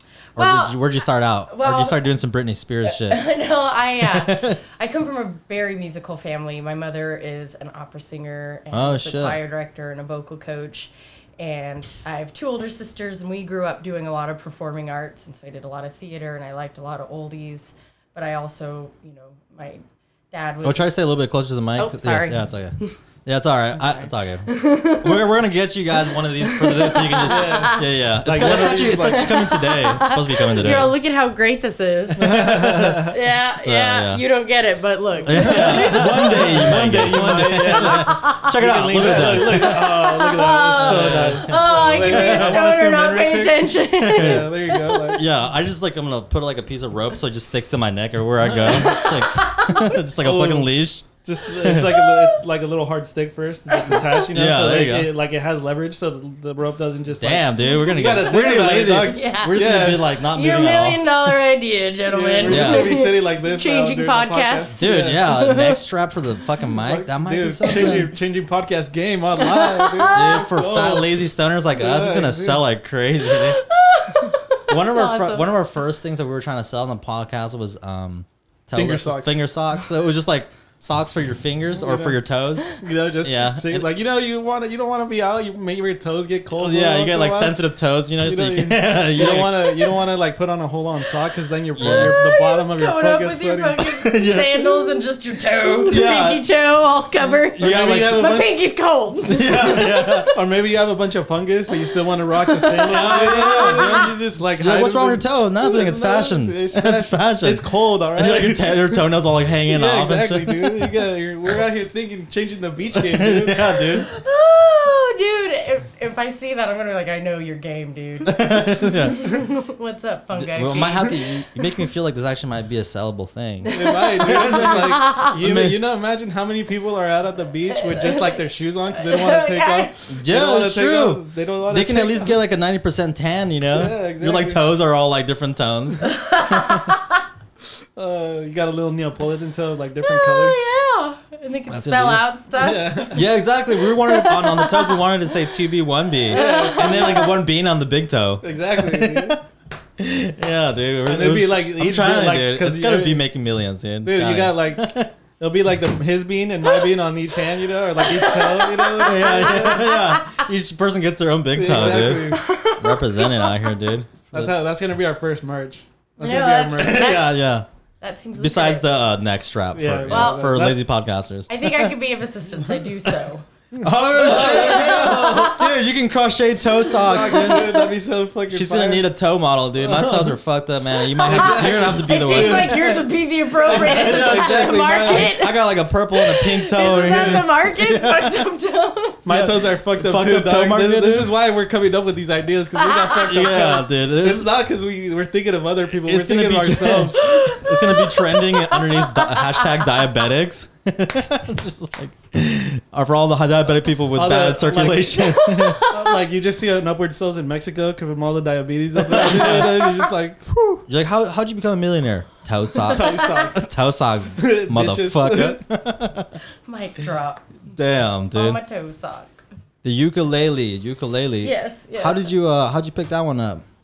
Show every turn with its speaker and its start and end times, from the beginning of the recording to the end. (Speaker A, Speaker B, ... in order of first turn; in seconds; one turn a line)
Speaker A: 0.3-0.8
Speaker B: 0.3-3.2
Speaker A: 1.4-2.1
Speaker A: 2.8-20.9
Speaker B: 4.0-4.6
Speaker B: 8.7-9.4
Speaker B: 20.6-30.9
Speaker A: 21.8-23.0
Speaker A: 23.8-25.3
Speaker A: 26.0-38.5
Speaker C: 27.2-29.4
Speaker C: 32.2-33.1
Speaker B: 32.2-34.2
Speaker C: 35.2-45.2
Speaker B: 35.2-40.1
Speaker A: 39.3-45.2
Speaker B: 40.7-42.6
Speaker B: 44.0-44.6
Speaker B: 45.1-52.0
Speaker C: 48.5-49.0
Speaker A: 48.6-50.0
Speaker C: 50.2-50.7
Speaker C: 51.2-60.1
Speaker A: 51.9-52.4
Speaker A: 53.7-54.3
Speaker B: 54.3-55.1
Speaker B: 57.2-61.1
Speaker A: 59.0-59.6
Speaker A: 60.3-65.8
Speaker C: 62.1-65.2
Speaker B: 62.4-63.0
Speaker B: 64.8-68.1
Speaker C: 66.8-72.6
Speaker A: 69.4-70.5
Speaker B: 70.1-73.6
Speaker A: 73.2-75.6
Speaker B: 74.7-83.9
Speaker C: 78.7-79.4
Speaker C: 81.7-82.2
Speaker C: 82.7-87.6
Speaker B: 86.5-90.0
Speaker C: 88.2-93.8
Speaker B: 91.8-92.2
Speaker A: 91.8-100.3
Speaker B: 93.8-95.0
Speaker B: 95.8-96.4
Speaker C: 97.5-98.5
Speaker B: 97.6-98.4
Speaker B: 99.2-100.3
Speaker C: 100.3-109.0
Speaker A: 102.3-104.1
Speaker B: 102.9-111.1
Speaker C: 109.7-114.0
Speaker B: 112.9-114.1
Speaker A: 114.0-121.4
Speaker B: 118.2-119.4
Speaker B: 120.3-125.8
Speaker A: 123.6-125.3
Speaker C: 123.7-132.4
Speaker A: 127.7-129.9
Speaker B: 130.1-137.0
Speaker C: 133.7-134.6
Speaker A: 136.0-137.2
Speaker C: 137.9-140.6
Speaker A: 140.0-145.0
Speaker B: 141.7-142.3
Speaker C: 142.6-143.3
Speaker B: 143.1-149.4
Speaker C: 146.3-147.3
Speaker A: 146.3-147.3
Speaker C: 148.4-149.4
Speaker B: 150.0-155.1
Speaker C: 151.1-153.2
Speaker C: 154.0-159.9
Speaker A: 158.0-160.4
Speaker B: 159.0-164.5
Speaker C: 161.5-162.5
Speaker A: 162.3-163.7
Speaker C: 164.3-167.2
Speaker A: 166.2-167.3
Speaker B: 166.7-167.7
Speaker A: 168.0-168.9
Speaker B: 168.4-171.9
Speaker C: 169.7-170.9
Speaker A: 170.1-170.6
Speaker A: 171.5-173.4
Speaker C: 173.7-175.6
Speaker B: 173.8-177.8
Speaker A: 174.1-175.7
Speaker C: 176.9-179.1
Speaker A: 177.3-177.9
Speaker B: 178.5-183.0
Speaker C: 179.8-180.4
Speaker C: 181.1-185.3
Speaker A: 181.2-189.3
Speaker B: 183.6-188.4
Speaker C: 186.8-187.4
Speaker C: 189.2-197.4
Speaker B: 189.3-191.4
Speaker A: 192.7-193.5
Speaker B: 193.2-194.5
Speaker B: 195.9-205.9
Speaker A: 197.2-200.1
Speaker C: 204.1-205.3
Speaker A: 205.1-206.2
Speaker C: 205.8-210.8
Speaker B: 208.9-210.0
Speaker A: 209.4-209.9
Speaker B: 210.9-216.4
Speaker C: 212.8-213.7
Speaker A: 213.1-213.5
Speaker C: 214.4-215.6
Speaker A: 216.7-217.5
Speaker B: 217.7-218.6
Speaker A: 218.3-219.4
Speaker B: 219.8-223.6
Speaker A: 221.4-222.3